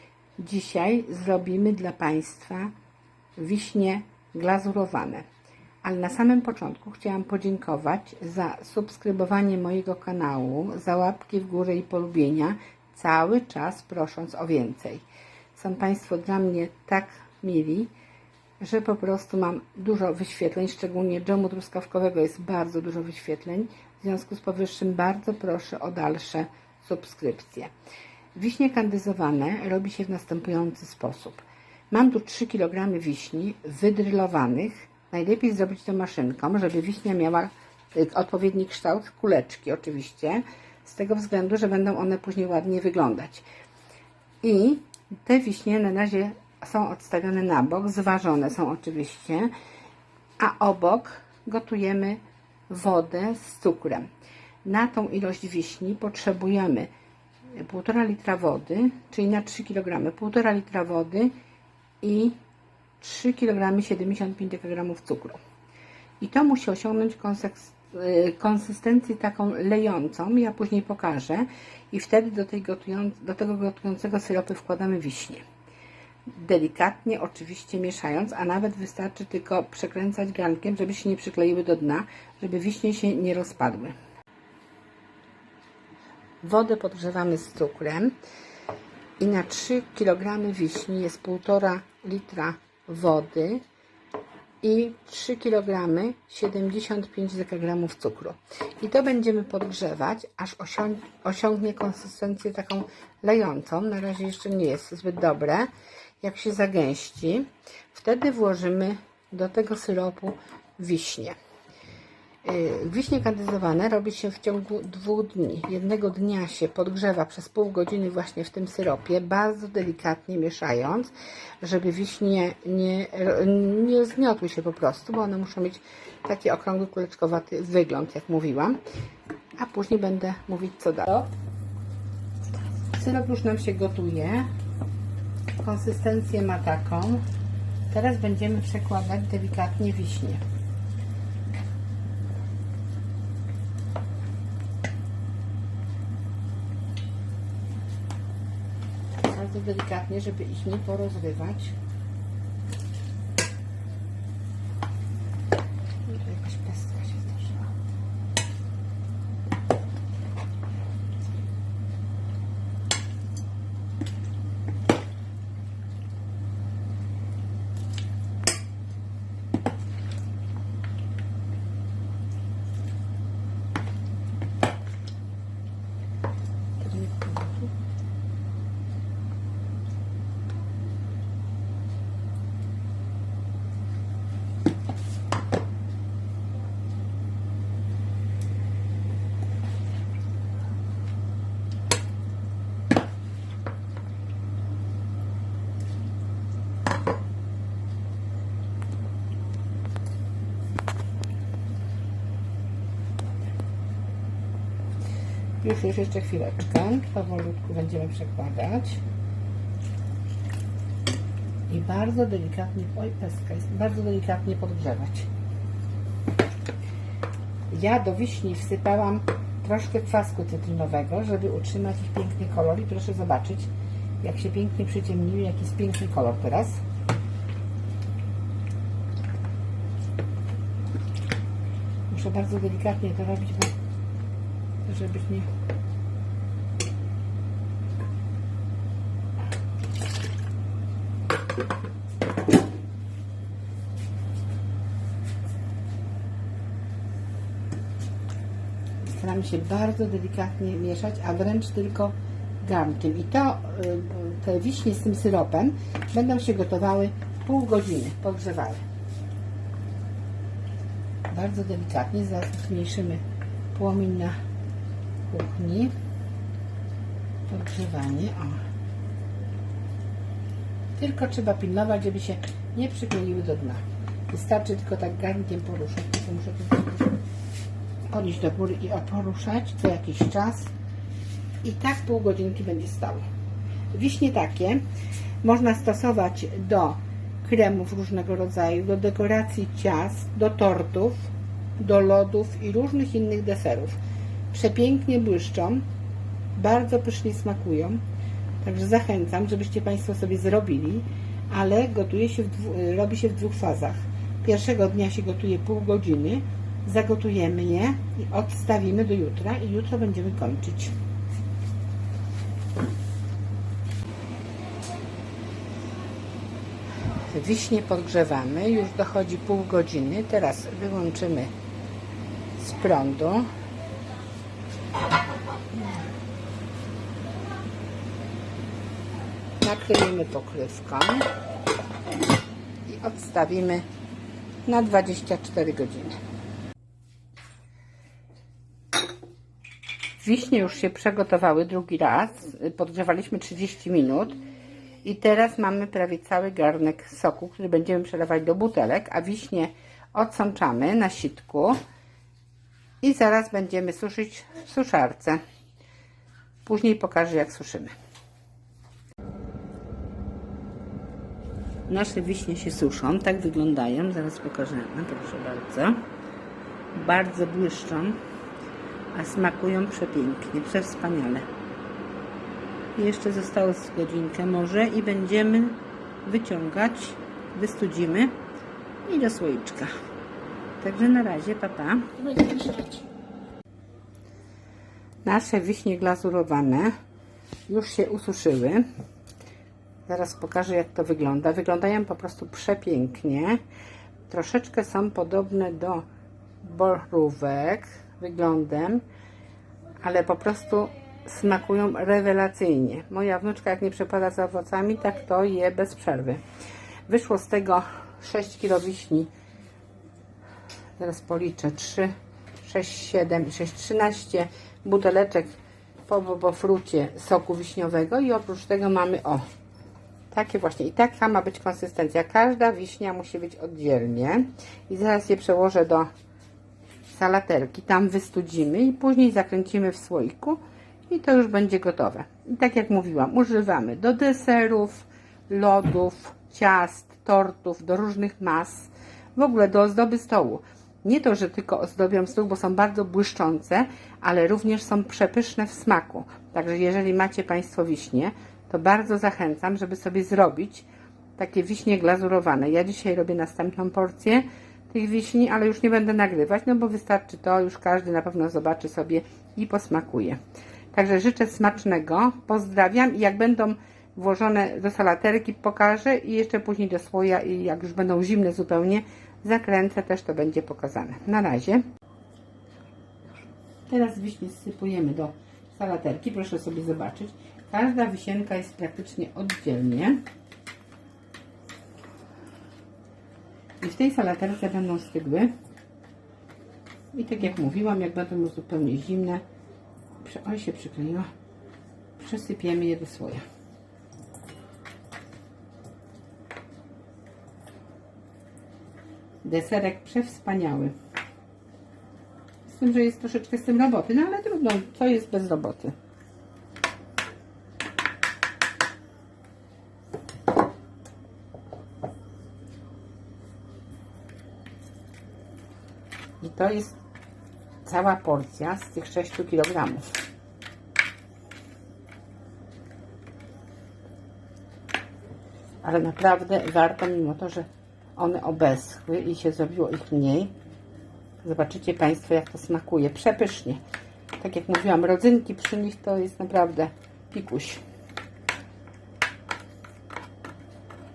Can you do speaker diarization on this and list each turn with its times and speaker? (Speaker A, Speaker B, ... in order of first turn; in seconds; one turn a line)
Speaker A: 0.4-2.7
Speaker A: 3.4-5.2
Speaker A: 5.8-17.9
Speaker A: 18.6-27.7
Speaker A: 28.4-43.5
Speaker A: 44.4-49.5
Speaker A: 50.4-54.1
Speaker A: 54.6-56.9
Speaker A: 57.5-61.3
Speaker A: 62.0-62.4
Speaker A: 63.0-65.4
Speaker A: 66.2-75.4
Speaker A: 76.3-84.0
Speaker A: 86.4-88.2
Speaker A: 89.2-93.6
Speaker A: 94.6-105.7
Speaker A: 106.2-111.4
Speaker A: 112.4-128.8
Speaker A: 129.6-131.3
Speaker A: 132.9-134.5
Speaker A: 135.6-137.2
Speaker A: 137.9-140.4
Speaker A: 149.2-151.8
Speaker A: 156.1-157.7
Speaker A: 176.8-177.7
Speaker A: 205.6-209.0
Speaker A: 211.7-215.3
Speaker A: 217.7-223.7
Speaker A: 224.2-226.8
Speaker A: 232.1-233.7
Speaker A: 234.9-235.5
Speaker A: 249.0-258.8
Speaker A: 261.3-264.4
Speaker A: 265.3-265.9
Speaker A: 267.5-268.6
Speaker A: 271.0-277.1
Speaker A: 278.1-280.7
Speaker A: 281.6-283.2
Speaker A: 283.9-284.8
Speaker A: 285.4-294.0
Speaker A: 294.5-295.9
Speaker A: 296.6-298.0
Speaker A: 298.6-310.9
Speaker A: 317.3-321.5
Speaker A: 322.6-323.5
Speaker A: 329.6-331.3
Speaker A: 332.9-333.9
Speaker A: 334.7-336.1
Speaker A: 340.2-344.4
Speaker A: 345.0-351.8
Speaker A: 353.0-355.4
Speaker A: 356.7-357.9
Speaker A: 361.9-366.0
Speaker A: 366.9-368.2
Speaker A: 369.1-371.5
Speaker A: 373.0-378.4
Speaker A: 379.1-379.9
Speaker A: 380.8-383.0
Speaker A: 385.2-386.9
Speaker A: 387.7-388.9
Speaker A: 390.1-393.6
Speaker A: 394.3-396.1
Speaker A: 396.6-399.1
Speaker A: 400.0-406.4
Speaker A: 407.1-409.3
Speaker A: 411.0-415.5
Speaker A: 416.1-419.4
Speaker A: 420.3-426.1
Speaker A: 427.1-460.4
Speaker A: 460.9-471.8
Speaker A: 473.9-480.2
Speaker A: 483.8-485.5
Speaker A: 487.1-489.4
Speaker A: 490.2-491.3
Speaker A: 492.2-493.4
Speaker A: 499.4-500.9
Speaker A: 502.7-505.9
Speaker A: 516.4-517.0
Speaker A: 517.9-520.1
Speaker A: 525.8-530.5
Speaker A: 531.4-533.8
Speaker A: 534.4-537.8